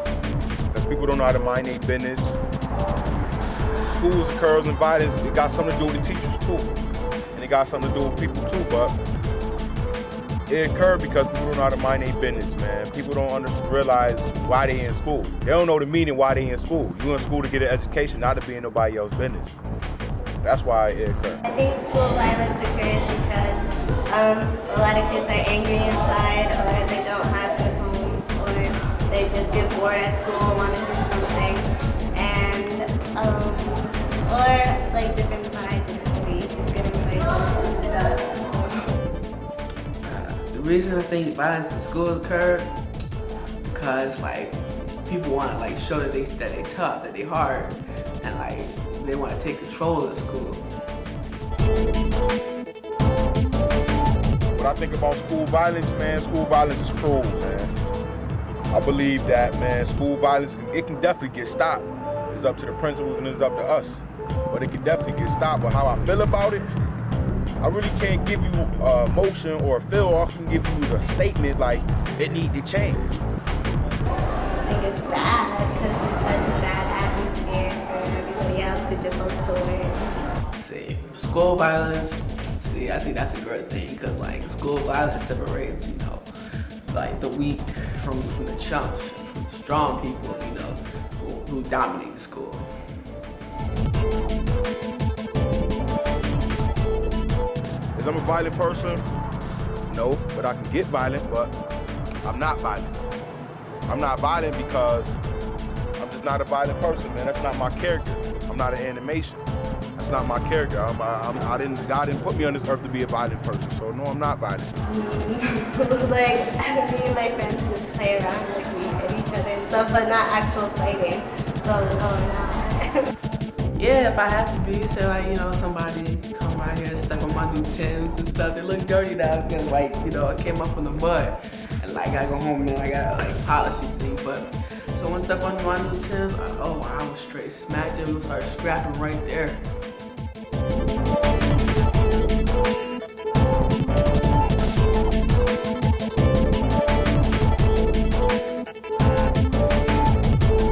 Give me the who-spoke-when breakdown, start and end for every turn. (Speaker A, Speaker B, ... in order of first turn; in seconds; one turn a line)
Speaker A: 0.7-2.4
Speaker A: 3.7-6.7
Speaker A: 7.3-8.9
Speaker A: 10.5-19.6
Speaker A: 20.4-21.4
Speaker B: 21.4-38.9
Speaker C: 40.0-42.8
Speaker C: 43.7-50.7
Speaker A: 54.6-57.7
Speaker A: 58.7-66.7
Speaker A: 67.6-73.1
Speaker B: 74.7-80.0
Speaker C: 80.6-92.7
Speaker A: 98.0-99.0
Speaker A: 99.9-101.5
Speaker A: 102.2-102.9
Speaker A: 103.9-105.2
Speaker A: 106.0-109.4
Speaker A: 110.0-114.7
Speaker B: 114.9-123.1
Speaker C: 123.7-139.6